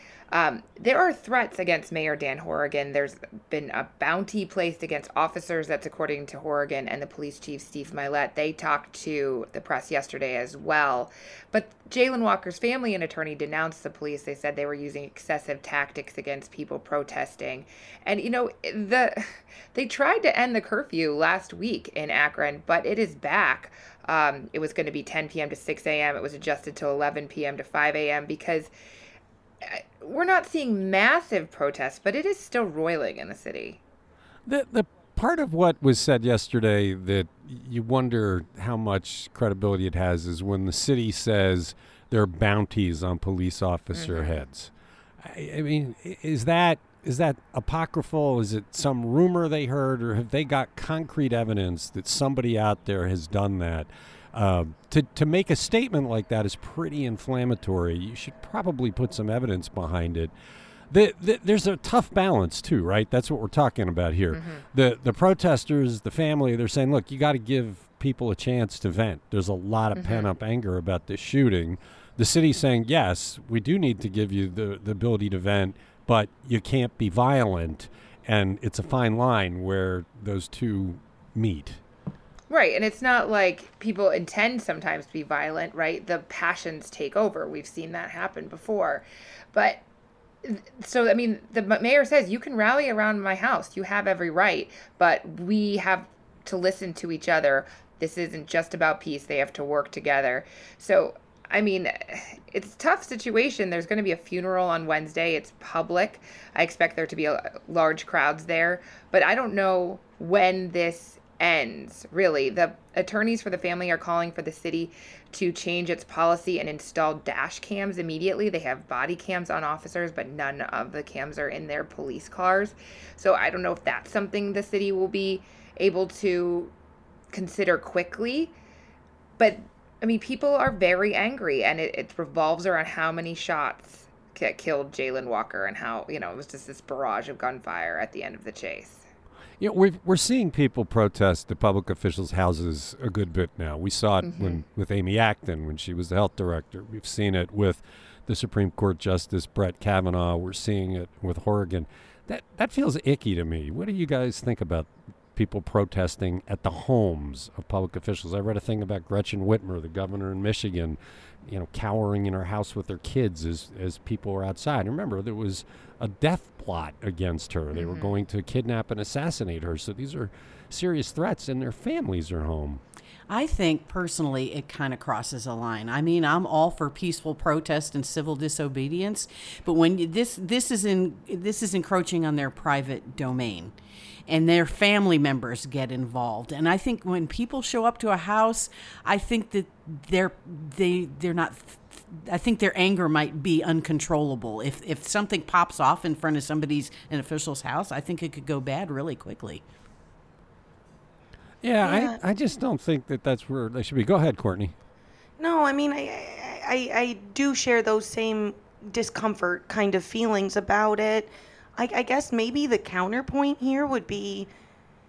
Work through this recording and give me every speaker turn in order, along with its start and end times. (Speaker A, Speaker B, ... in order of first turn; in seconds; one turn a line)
Speaker A: 0.3-28.7
Speaker A: 29.6-33.8
Speaker B: 34.5-60.3
Speaker A: 44.0-44.4
Speaker B: 60.9-81.8
Speaker A: 64.3-64.6
Speaker A: 70.0-70.3
Speaker A: 82.5-89.8
Speaker A: 90.4-126.7
Speaker A: 127.3-128.5
Speaker A: 129.4-139.0
Speaker B: 139.6-172.8
Speaker A: 144.2-144.6
Speaker A: 167.7-168.1
Speaker C: 173.3-183.7
Speaker C: 184.3-199.6
Speaker B: 201.6-204.7
Speaker D: 201.8-202.2
Speaker D: 205.4-214.5